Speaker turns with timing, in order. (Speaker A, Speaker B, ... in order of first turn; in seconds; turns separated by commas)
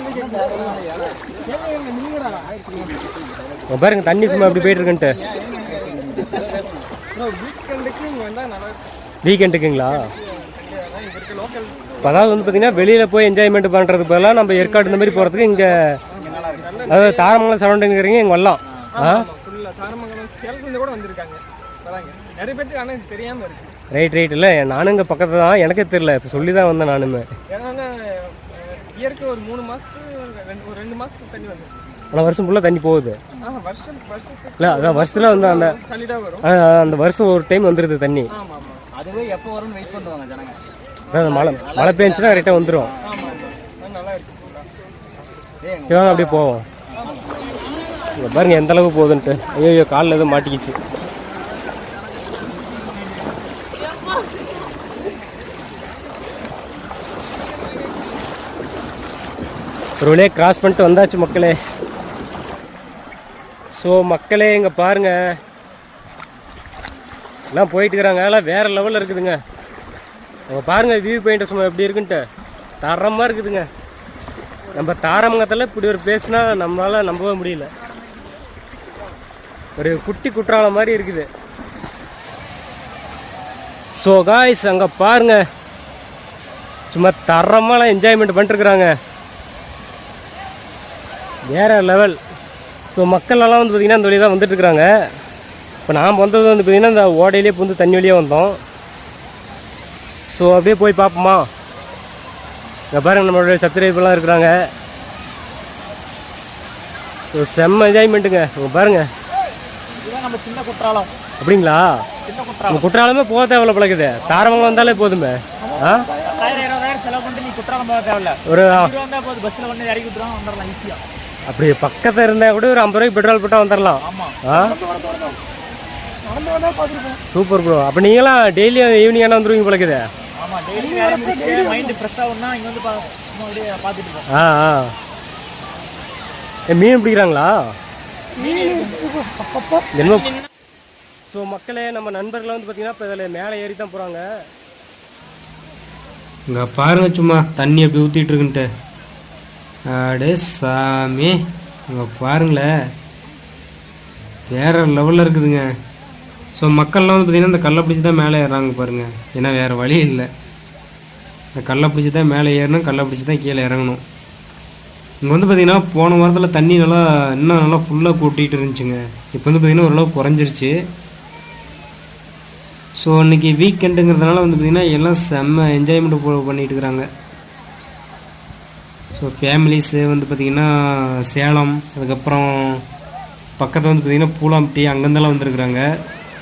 Speaker A: 0.2-3.2, Speaker B: 3.7-5.2, Speaker A: 5.2-6.9, Speaker C: 7.1-8.8, Speaker B: 9.2-10.1, Speaker C: 10.1-11.9, Speaker B: 12.0-16.0, Speaker C: 14.6-15.4, Speaker C: 16.2-17.2, Speaker A: 16.2-17.0, Speaker B: 16.9-19.3, Speaker C: 19.0-23.7, Speaker B: 23.9-27.3, Speaker C: 27.5-31.8, Speaker B: 32.1-33.2, Speaker C: 33.4-36.4, Speaker B: 34.6-35.8, Speaker B: 36.4-38.3, Speaker C: 38.3-38.8, Speaker A: 39.0-40.5, Speaker B: 41.1-42.9, Speaker A: 41.1-43.5, Speaker C: 43.8-44.5, Speaker A: 45.6-46.2, Speaker B: 45.9-46.6, Speaker B: 48.2-50.8, Speaker B: 60.0-61.5, Speaker B: 63.8-65.2, Speaker B: 67.5-69.4, Speaker B: 70.5-72.2, Speaker B: 72.8-73.7, Speaker B: 74.7-77.7, Speaker B: 79.8-81.3, Speaker B: 83.9-85.4, Speaker B: 86.9-88.9, Speaker B: 91.5-92.2, Speaker B: 92.9-94.9, Speaker B: 95.9-98.6, Speaker B: 100.3-101.5, Speaker B: 102.9-104.5, Speaker B: 107.3-109.1, Speaker D: 110.0-111.1, Speaker B: 111.4-112.0, Speaker D: 112.2-112.8, Speaker B: 112.7-116.1, Speaker D: 116.2-121.0, Speaker B: 118.5-118.9, Speaker B: 121.5-124.8, Speaker D: 124.0-124.4, Speaker C: 124.8-125.4, Speaker C: 126.3-127.2, Speaker B: 127.3-130.0, Speaker D: 130.4-134.2, Speaker B: 134.3-134.9, Speaker B: 136.7-137.7, Speaker D: 138.4-138.9, Speaker C: 138.5-139.8, Speaker B: 139.9-140.3, Speaker B: 141.3-144.2, Speaker E: 146.5-148.7, Speaker E: 149.9-151.3, Speaker E: 151.9-152.7, Speaker E: 154.5-155.7, Speaker E: 156.6-160.3, Speaker E: 161.5-164.0, Speaker E: 165.2-170.7, Speaker E: 173.0-177.1, Speaker E: 179.2-182.8, Speaker E: 183.6-185.8